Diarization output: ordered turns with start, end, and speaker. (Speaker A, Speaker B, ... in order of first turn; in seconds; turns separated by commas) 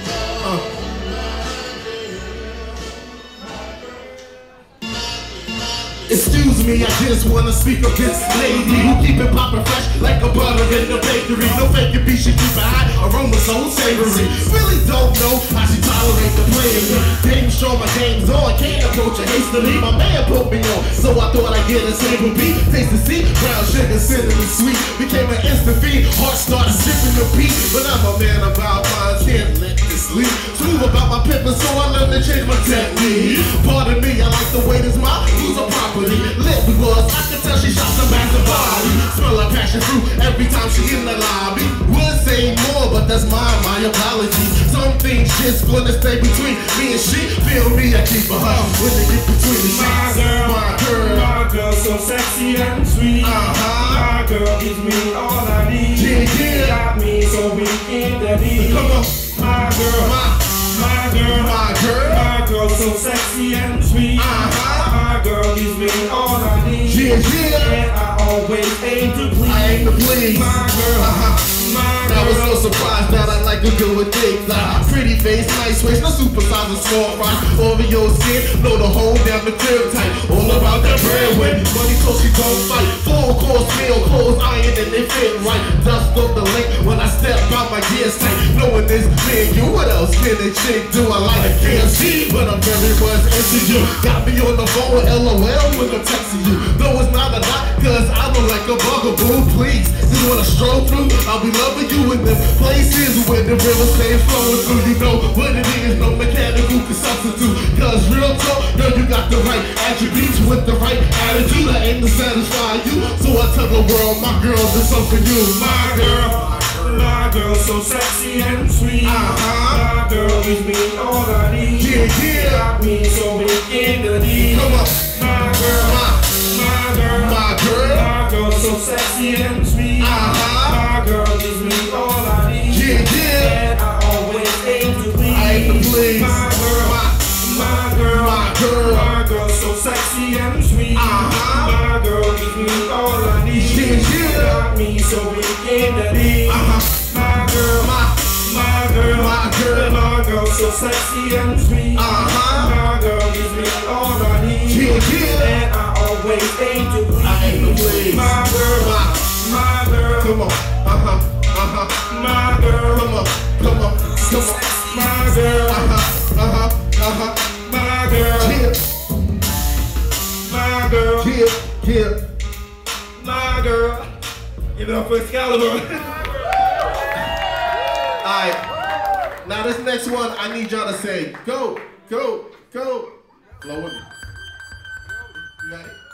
Speaker A: 0.4-0.7, Speaker A: 6.0-51.3, Speaker B: 49.6-73.0, Speaker A: 53.2-54.1, Speaker A: 55.9-56.8, Speaker A: 58.5-59.1, Speaker A: 60.0-60.4, Speaker A: 61.2-62.3, Speaker A: 64.2-65.0, Speaker A: 66.8-67.8, Speaker A: 69.5-116.9, Speaker B: 80.6-81.6, Speaker B: 115.5-160.3, Speaker A: 119.0-119.9, Speaker A: 121.8-122.7, Speaker A: 124.4-125.0, Speaker A: 125.8-126.3, Speaker A: 127.1-128.1, Speaker A: 130.0-130.9, Speaker A: 132.7-133.6, Speaker A: 135.3-137.2, Speaker A: 138.1-139.1, Speaker A: 140.9-141.8, Speaker A: 143.5-144.6, Speaker A: 146.4-147.0, Speaker A: 147.8-148.2, Speaker A: 149.0-150.0, Speaker A: 151.9-152.8, Speaker A: 154.7-155.6, Speaker A: 157.2-159.3, Speaker A: 160.2-162.1, Speaker B: 162.0-163.1, Speaker A: 162.9-164.8, Speaker B: 164.1-165.9, Speaker A: 165.7-167.4, Speaker B: 167.5-168.6, Speaker A: 168.3-168.8, Speaker B: 170.4-171.3, Speaker A: 171.2-172.2, Speaker B: 173.2-174.1, Speaker B: 174.7-176.4, Speaker A: 178.2-178.6, Speaker A: 179.4-183.1, Speaker A: 183.6-184.1, Speaker A: 185.4-185.9